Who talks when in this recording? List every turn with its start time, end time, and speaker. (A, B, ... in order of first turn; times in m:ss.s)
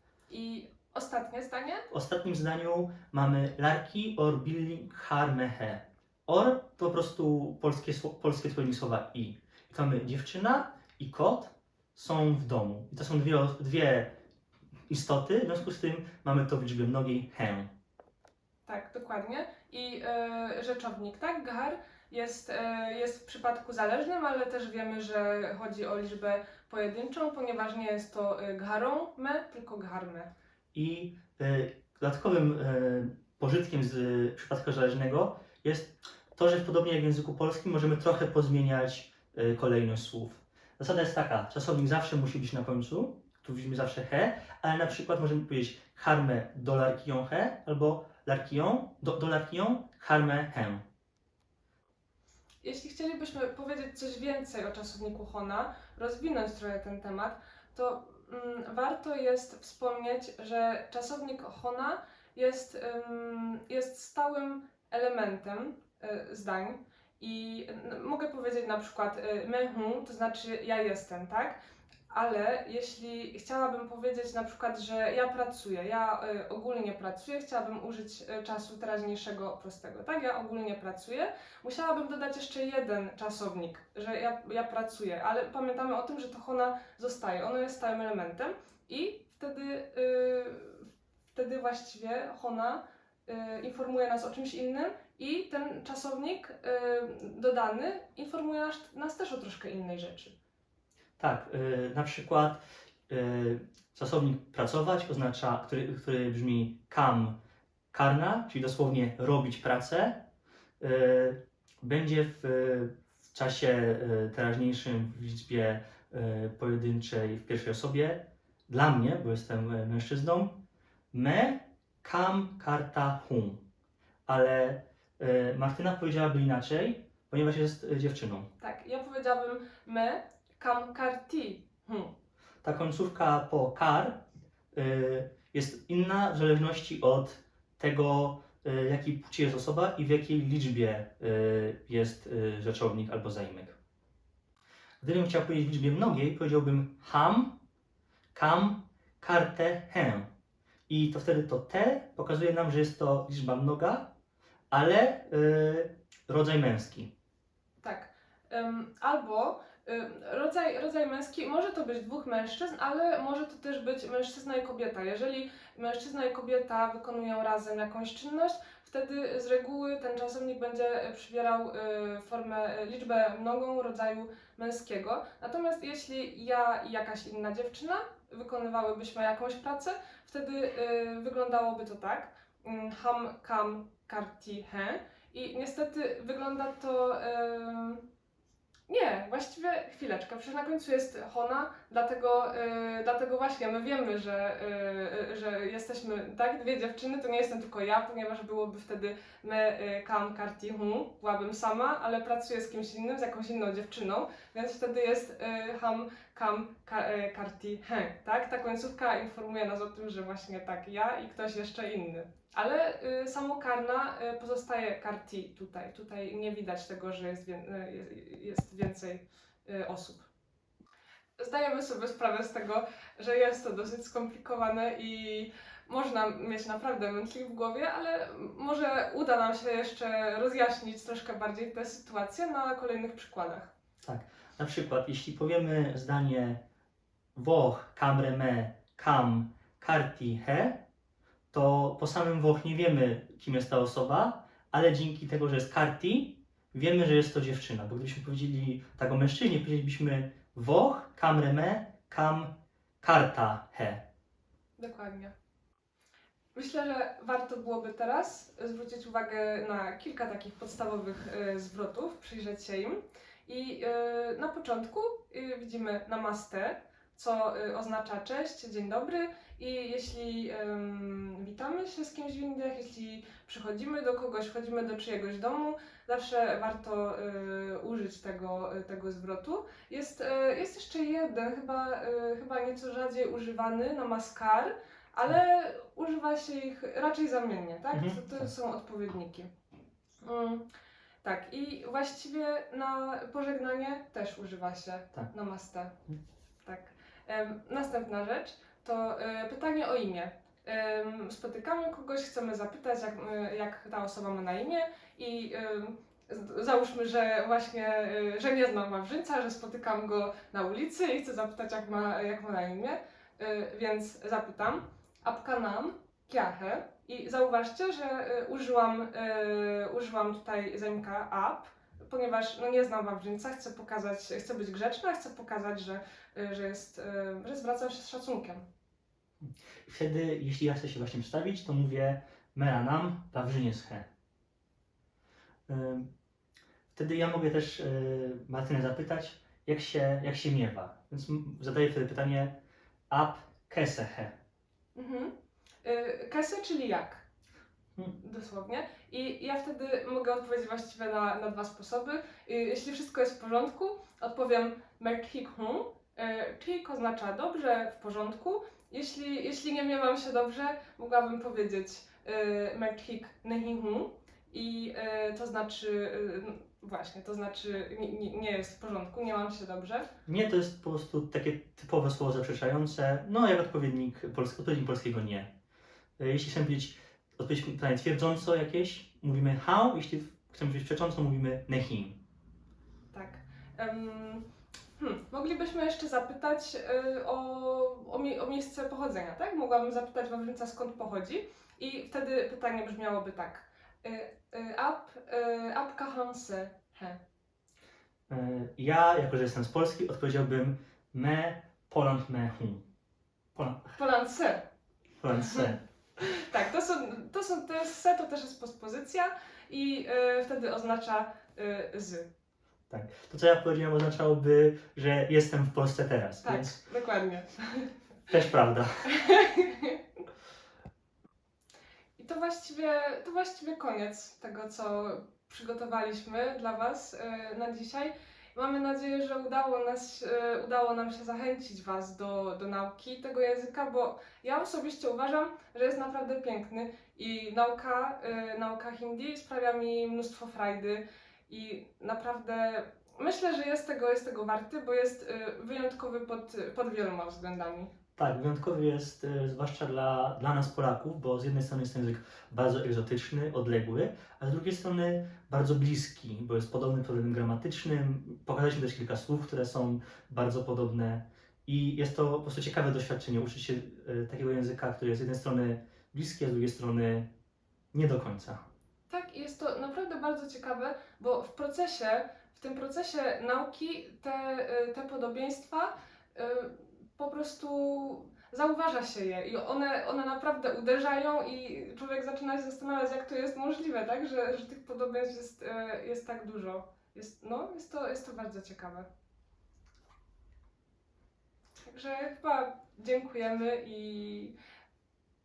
0:00.3-0:01.9 A
0:01.9-0:14.2 B
0:14.9-0:17.7 B
0:18.7-0:30.3 A
0:30.7-0:50.8 B
0:52.6-1:11.6 A
1:12.1-1:40.3 A
1:41.2-1:47.4 B
1:47.9-1:50.2 B
1:50.8-2:00.6 B
2:01.1-2:03.6 B
2:04.3-2:08.5 B
2:08.6-2:12.1 A
2:12.6-2:23.8 B
2:25.0-2:27.6 B
2:28.3-2:30.3 B
2:30.9-2:34.1 B
2:34.7-2:37.1 B
2:37.8-3:08.0 A
3:08.9-3:40.3 A
3:41.4-3:53.7 A
3:54.0-3:56.6 B
3:57.3-4:00.8 B
4:01.5-4:14.0 B
4:14.8-4:15.3 A
4:16.5-4:49.5 A
4:47.9-4:48.5 B
4:50.2-4:50.7 A
4:51.2-4:56.0 A
4:56.6-5:28.6 A
5:29.4-5:34.1 B
5:35.7-5:36.1 B
5:36.9-5:42.6 B
5:43.1-5:44.4 B
5:44.9-5:47.2 A
5:48.1-6:10.1 A
6:10.2-6:15.5 B
6:16.2-6:22.2 B
6:23.1-6:24.4 A
6:25.0-6:37.2 A
6:38.3-6:42.8 B
6:43.5-6:43.9 B
6:43.9-6:44.7 A
6:45.2-6:45.8 B
6:45.4-6:52.3 A
6:52.9-6:56.8 B
6:56.4-6:57.9 A
6:58.3-6:59.1 B
6:59.1-7:00.0 A
7:02.2-7:27.9 A
7:28.2-7:47.3 B
7:47.9-7:48.6 B
7:49.1-8:09.1 A
8:11.8-8:14.5 A